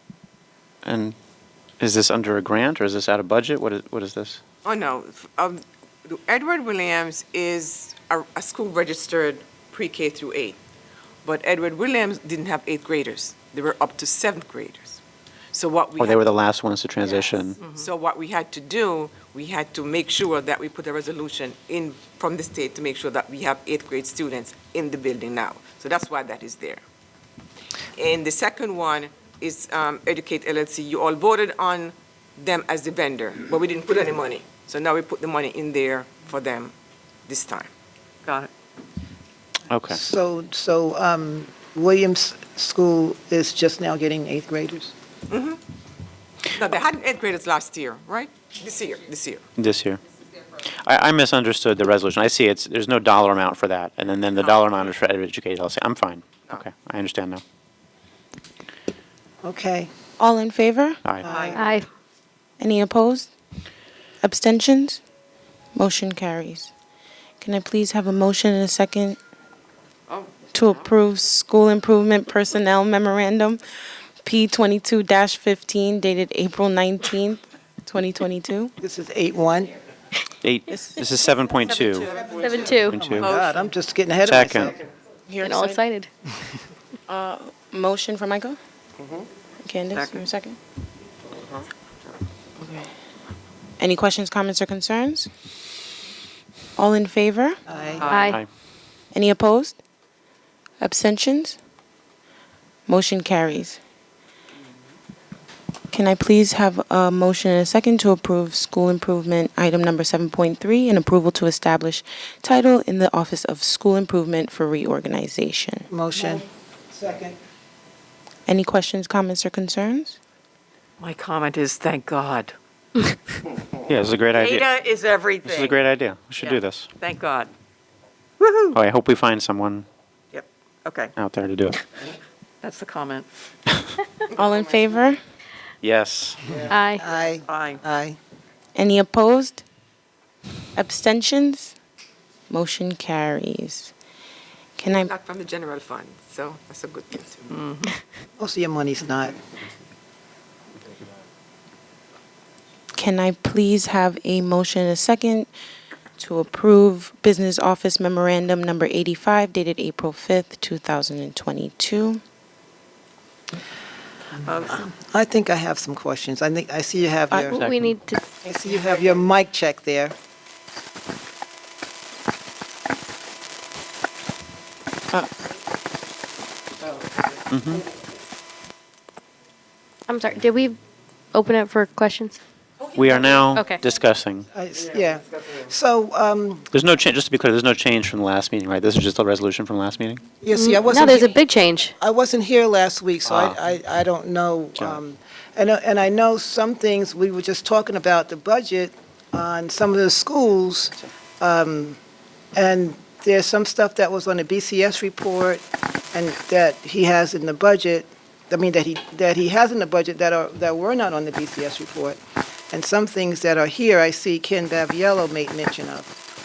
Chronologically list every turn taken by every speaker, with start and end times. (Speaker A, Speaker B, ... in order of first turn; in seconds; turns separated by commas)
Speaker A: 0.8-1.1, Speaker A: 1.8-4.4, Speaker B: 4.6-10.6, Speaker B: 11.2-15.0, Speaker B: 15.5-16.2, Speaker A: 16.0-17.6, Speaker C: 17.6-17.9, Speaker B: 17.7-26.8, Speaker B: 27.9-36.7, Speaker B: 37.3-37.7, Speaker C: 38.2-38.5, Speaker A: 39.7-40.0, Speaker D: 39.9-44.9, Speaker B: 45.3-45.6, Speaker B: 46.5-49.4, Speaker A: 49.6-50.0, Speaker A: 50.8-57.4, Speaker B: 54.4-54.8, Speaker D: 59.4-59.9, Speaker E: 60.2-61.0, Speaker D: 61.2-61.7, Speaker C: 61.3-61.5, Speaker F: 61.5-61.9, Speaker E: 62.6-63.3, Speaker E: 64.2-65.0, Speaker E: 65.7-66.7, Speaker E: 67.4-69.2, Speaker E: 70.5-73.6, Speaker E: 74.2-78.7, Speaker D: 78.8-79.7, Speaker A: 80.4-82.1, Speaker F: 82.2-83.1, Speaker D: 82.6-84.8, Speaker A: 82.8-83.4, Speaker C: 83.2-83.7, Speaker A: 84.2-84.7, Speaker E: 85.3-85.8, Speaker F: 85.4-86.1, Speaker E: 87.1-88.6, Speaker E: 89.6-90.6, Speaker C: 89.9-90.2, Speaker E: 92.6-92.9, Speaker E: 93.8-95.3, Speaker E: 96.8-97.6, Speaker D: 97.7-98.2, Speaker C: 98.0-98.4, Speaker F: 98.1-98.4, Speaker E: 99.1-99.8, Speaker E: 100.8-101.6, Speaker E: 102.9-103.8, Speaker E: 105.9-115.9, Speaker D: 115.9-117.4, Speaker E: 118.5-120.2, Speaker C: 121.0-122.5, Speaker A: 123.9-124.7, Speaker C: 124.3-125.8, Speaker A: 125.4-126.9, Speaker C: 126.4-127.5, Speaker C: 128.4-128.7, Speaker A: 128.7-129.8, Speaker C: 130.3-131.1, Speaker A: 131.2-131.8, Speaker C: 132.6-133.3, Speaker E: 134.3-135.2, Speaker A: 135.8-136.4, Speaker F: 136.7-137.0, Speaker D: 136.9-138.2, Speaker C: 137.4-137.8, Speaker E: 138.7-139.6, Speaker E: 140.8-141.7, Speaker E: 142.5-143.9, Speaker E: 144.8-145.1, Speaker B: 144.9-147.4, Speaker C: 147.5-147.9, Speaker D: 148.4-149.3, Speaker E: 152.9-155.5, Speaker E: 156.2-162.2, Speaker C: 164.4-164.9, Speaker D: 164.8-167.6, Speaker F: 167.5-168.2, Speaker A: 167.5-167.9, Speaker D: 168.4-170.1, Speaker A: 177.5-177.8, Speaker F: 180.1-180.8, Speaker F: 181.3-182.4, Speaker A: 182.9-184.5, Speaker F: 183.5-183.8, Speaker D: 184.5-186.7, Speaker A: 186.7-190.2, Speaker D: 190.4-191.4, Speaker F: 190.5-191.9, Speaker D: 192.0-202.0, Speaker A: 193.3-193.6, Speaker D: 202.5-212.2, Speaker D: 212.7-216.1